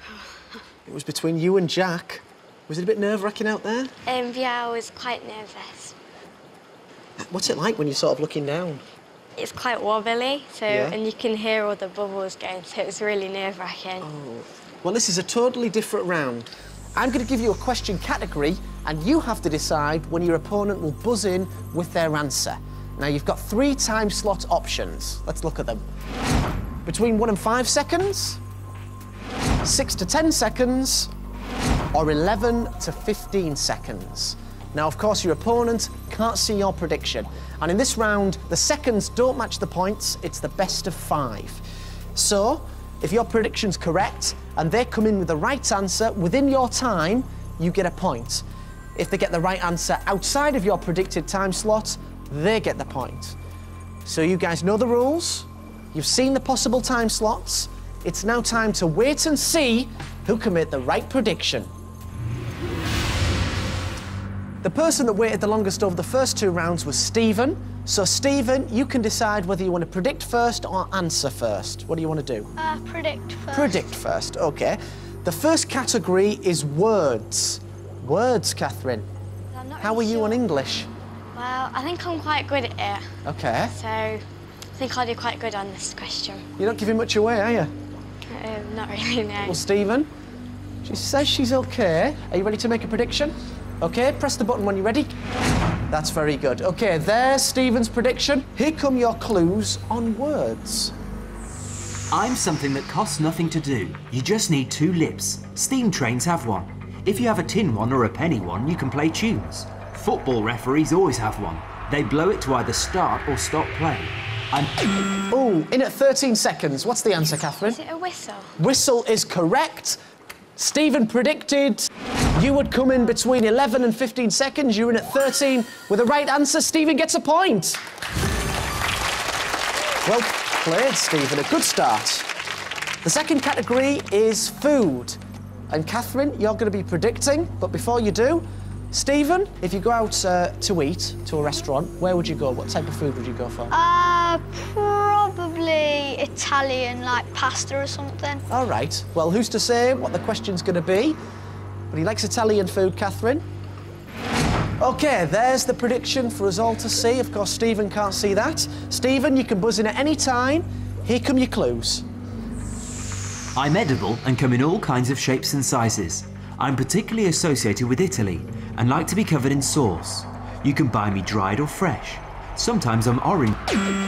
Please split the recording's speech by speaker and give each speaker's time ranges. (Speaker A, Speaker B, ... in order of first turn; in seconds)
Speaker A: 0.9-3.9, 7.2-8.8, 10.7-11.0, 14.0-25.8, 26.9-28.4, 29.6-31.1, 31.9-41.6, 42.1-48.4, 49.0-53.4, 54.1-61.7, 64.6-72.5, 73.5-79.1, 79.8-80.9, 83.2-83.7, 86.6-87.7, 89.4-90.1, 90.8-95.1, 95.9-100.9, 115.3-117.8, 118.6-120.0, 120.6-127.8, 130.1-132.3, 133.0-135.2, 135.7-143.7, 148.5-151.2, 151.9-153.4, 154.8-162.0
Speaker B: 4.1-6.0, 9.4-14.1, 79.5-80.4, 81.3-83.1, 83.7-86.5, 88.3-89.6, 117.7-118.5
Speaker C: 72.6-73.8, 143.7-148.4
Speaker D: 102.1-114.7, 163.6-173.6